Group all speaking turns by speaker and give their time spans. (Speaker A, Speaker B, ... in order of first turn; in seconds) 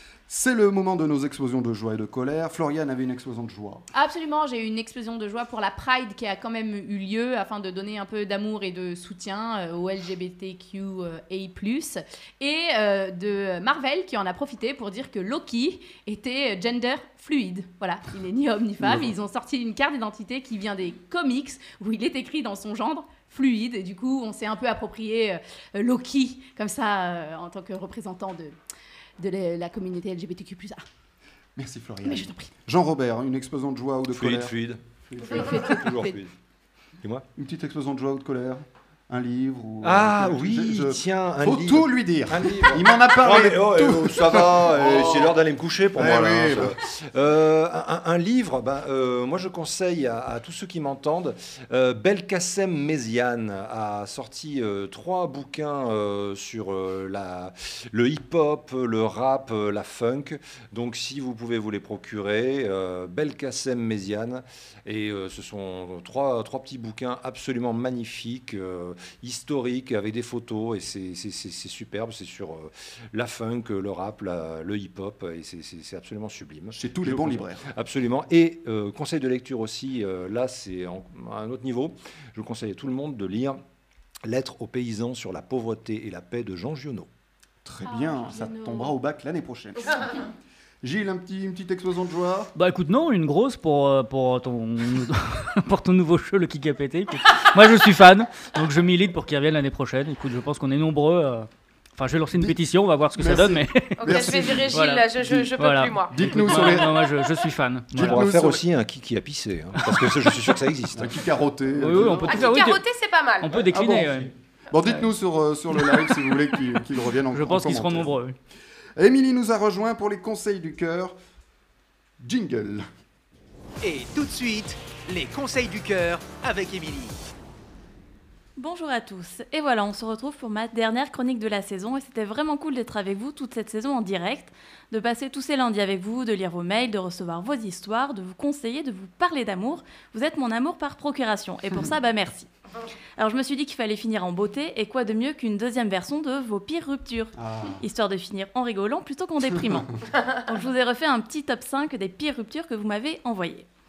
Speaker A: 0.3-3.8, 31.6-34.5, 35.0-35.9, 37.4-45.4, 45.9-46.7, 76.7-77.6, 87.6-90.1, 90.8-92.5, 103.1-105.5, 106.1-106.9, 107.9-108.6, 110.9-112.5, 113.6-114.2, 114.7-118.1, 119.0-121.1, 122.2-122.8, 147.4-147.8
Speaker B: 3.9-28.5, 29.2-30.8, 32.0-32.5, 35.2-36.2
Speaker C: 34.1-36.3, 39.8-83.6, 84.2-87.1, 107.9-111.2
Speaker D: 92.5-108.2, 111.8-112.8, 113.4-114.3, 117.3-118.3
Speaker E: 104.0-106.1, 112.3-113.5
Speaker F: 123.8-127.2
Speaker G: 128.6-142.5, 143.2-153.7